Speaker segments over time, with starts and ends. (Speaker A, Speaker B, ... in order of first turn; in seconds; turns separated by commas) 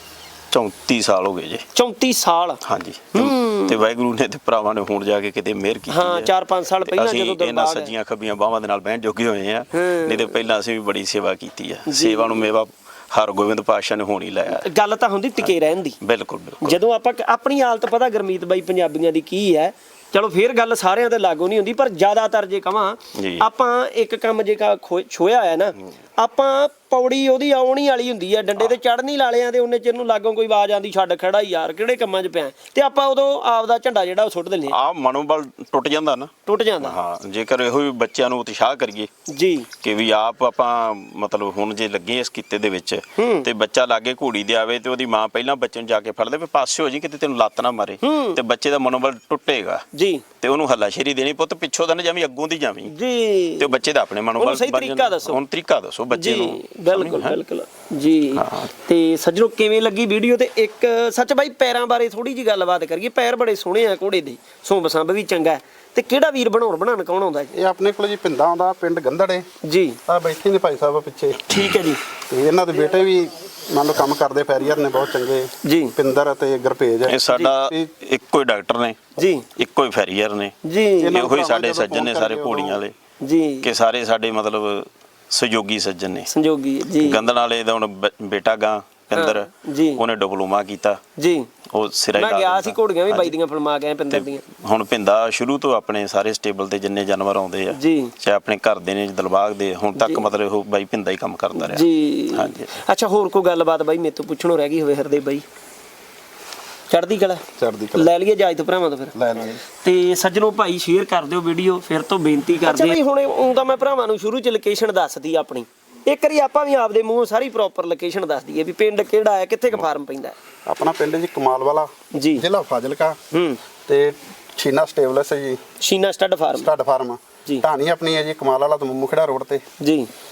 Speaker A: 0.5-1.6, Speaker B: 1.7-2.6, Speaker A: 2.6-6.3, Speaker B: 3.1-3.8, Speaker B: 5.9-7.9, Speaker A: 6.8-14.7, Speaker B: 9.7-10.3, Speaker B: 11.9-12.4, Speaker B: 14.5-16.0, Speaker A: 15.4-16.8, Speaker B: 16.6-34.7, Speaker A: 23.1-23.5, Speaker A: 34.7-39.1, Speaker B: 36.5-36.9, Speaker B: 39.3-39.7, Speaker A: 39.8-49.8, Speaker B: 43.2-43.5, Speaker B: 48.0-48.4, Speaker B: 49.9-50.2, Speaker A: 50.4-52.9, Speaker B: 52.9-53.7, Speaker A: 53.6-57.4, Speaker B: 54.4-55.4, Speaker B: 56.1-67.6, Speaker A: 58.4-58.7, Speaker C: 67.5-69.5, Speaker B: 69.6-70.0, Speaker C: 70.1-71.5, Speaker B: 71.5-72.0, Speaker C: 72.3-77.9, Speaker B: 75.6-76.0, Speaker A: 77.1-82.9, Speaker B: 79.2-79.5, Speaker B: 80.6-81.2, Speaker C: 81.0-82.8, Speaker B: 83.2-83.7, Speaker A: 83.6-86.3, Speaker B: 86.3-87.2, Speaker A: 87.0-91.0, Speaker B: 89.1-90.0, Speaker B: 91.2-91.5, Speaker A: 91.7-93.3, Speaker B: 92.2-94.4, Speaker A: 94.1-102.7, Speaker B: 97.7-98.1, Speaker B: 100.0-100.2, Speaker B: 101.6-105.4, Speaker B: 106.9-107.4, Speaker C: 107.6-108.1, Speaker B: 107.9-109.1, Speaker C: 109.1-109.6, Speaker B: 109.7-120.4, Speaker C: 120.7-123.2, Speaker B: 122.1-122.4, Speaker B: 123.3-123.6, Speaker C: 123.9-125.6, Speaker B: 125.8-126.7, Speaker C: 126.5-129.6, Speaker B: 129.8-130.1